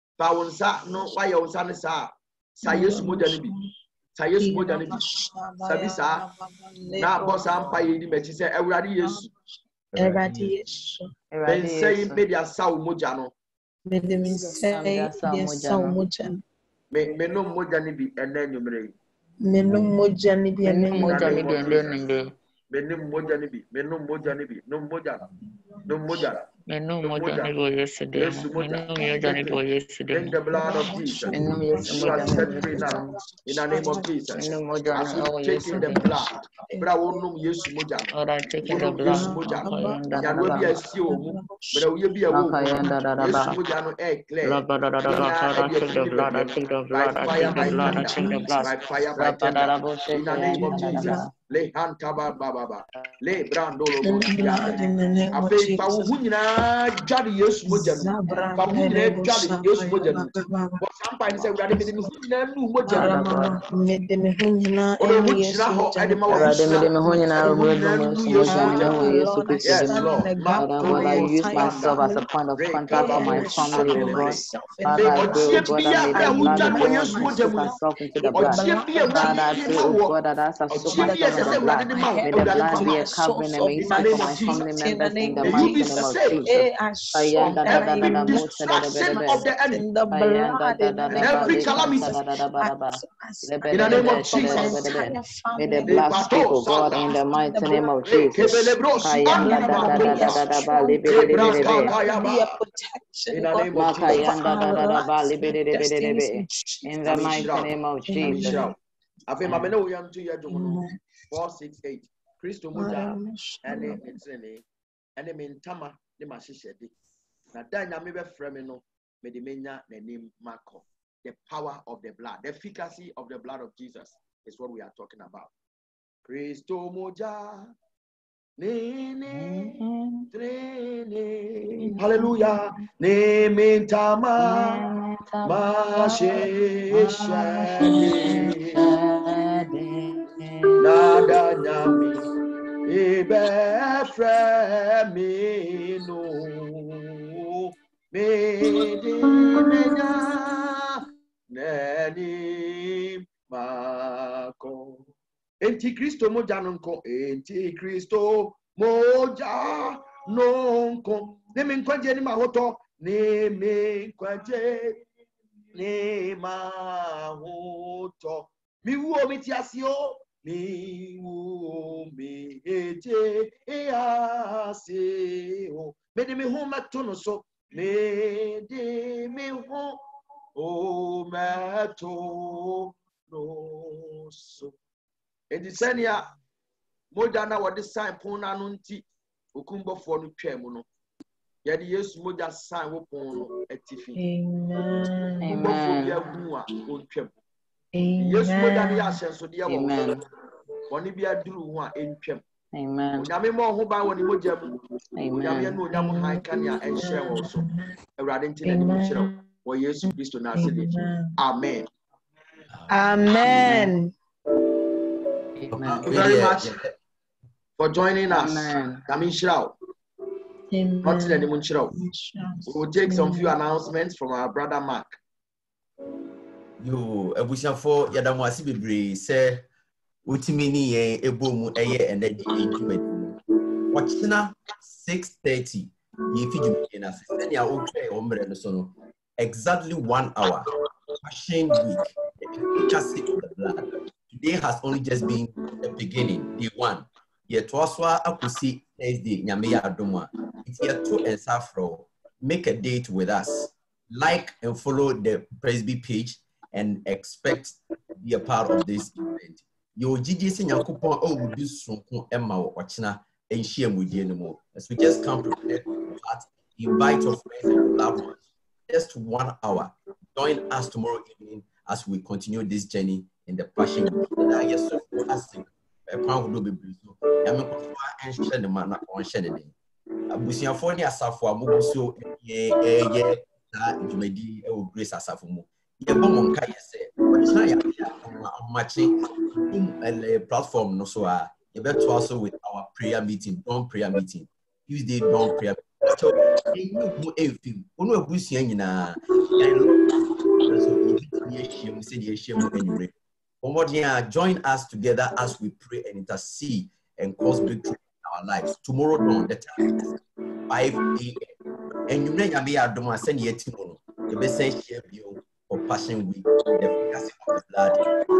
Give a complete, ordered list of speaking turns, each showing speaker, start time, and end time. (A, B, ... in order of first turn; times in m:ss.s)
0:00.2-0:03.5 A
0:02.6-0:03.6 B
0:04.1-0:05.0 A
0:04.4-0:07.7 B
0:05.6-0:06.3 A
0:07.0-0:09.3 A
0:09.0-0:09.3 B
0:09.9-0:10.6 C
0:09.9-0:11.1 B
0:11.3-0:12.2 D
0:11.4-0:13.3 A
0:13.8-0:16.4 B
0:14.7-0:16.0 D
0:16.9-0:18.9 A
0:19.4-0:21.5 B
0:20.6-0:22.3 D
0:20.9-0:22.1 A
0:22.7-0:25.2 A
0:25.8-0:26.5 A
0:26.7-0:30.4 D
0:27.0-0:27.5 A
0:28.1-0:54.8 A
0:30.5-0:33.1 B
0:31.3-0:33.1 D
0:33.7-0:36.2 D
0:33.7-0:37.7 B
0:38.1-0:40.7 D
0:38.6-0:41.8 B
0:42.3-0:43.6 D
0:44.4-0:51.3 D
0:47.3-0:48.7 B
0:50.5-0:51.3 B
0:52.9-0:53.5 D
0:54.0-0:56.1 B
0:54.4-0:55.0 D
0:55.3-1:03.5 A
0:57.7-1:00.8 B
1:01.6-1:02.0 B
1:02.8-1:07.5 B
1:02.9-1:03.6 D
1:05.0-1:17.7 A
1:06.3-1:29.5 D
1:08.5-1:12.2 B
1:12.9-1:19.9 B
1:18.3-1:20.2 A
1:20.7-1:23.2 A
1:20.8-1:28.4 B
1:23.8-1:24.7 A
1:25.4-1:26.6 A
1:27.4-1:29.8 A
1:29.7-1:48.7 B
1:30.1-1:41.9 D
1:31.1-1:32.2 A
1:33.7-1:34.9 A
1:35.8-1:37.1 A
1:38.0-1:42.6 A
1:43.3-1:44.4 A
1:43.7-1:48.7 D
1:47.0-1:48.8 A
1:49.3-1:54.6 A
1:49.4-1:49.7 D
1:50.5-1:50.9 B
1:52.7-1:54.1 B
1:55.2-1:56.9 A
1:57.5-2:05.5 A
2:06.2-2:07.7 A
2:08.6-2:09.8 A
2:09.3-2:10.3 D
2:10.3-2:14.8 A
2:11.8-2:12.6 D
2:14.4-2:20.8 D
2:15.4-2:18.8 A
2:20.8-2:22.2 A
2:22.8-2:27.0 A
2:28.1-2:30.9 A
2:31.5-2:35.1 A
2:35.6-2:45.0 A
2:45.7-3:00.0 A
3:00.6-3:04.7 A
3:05.5-3:06.3 A
3:07.1-3:10.8 A
3:11.6-3:14.2 A
3:14.2-3:15.7 B
3:15.4-3:16.3 D
3:15.5-3:17.3 A
3:17.9-3:19.2 B
3:18.2-3:20.0 A
3:19.7-3:20.2 D
3:20.9-3:22.4 A
3:22.7-3:23.3 D
3:23.2-3:24.7 A
3:25.1-3:25.8 D
3:25.4-3:31.9 A
3:25.9-3:27.8 B
3:28.6-3:29.4 B
3:30.6-3:31.3 B
3:32.7-3:33.8 C
3:32.9-3:34.1 B
3:33.4-3:33.9 D
3:35.6-3:36.1 D
3:35.7-3:37.0 C
3:36.0-3:36.7 A
3:37.8-3:39.7 A
3:38.3-3:39.0 D
3:40.7-3:43.5 B
3:41.0-3:41.9 A
3:42.6-3:45.1 A
3:46.8-3:49.6 C
3:50.2-3:53.4 C
3:53.9-4:00.7 C
4:01.2-4:39.7 C
4:40.3-4:49.2 C
4:49.7-5:00.0 C
5:00.6-5:10.1 C
5:10.7-5:11.5 C
5:12.1-5:18.0 C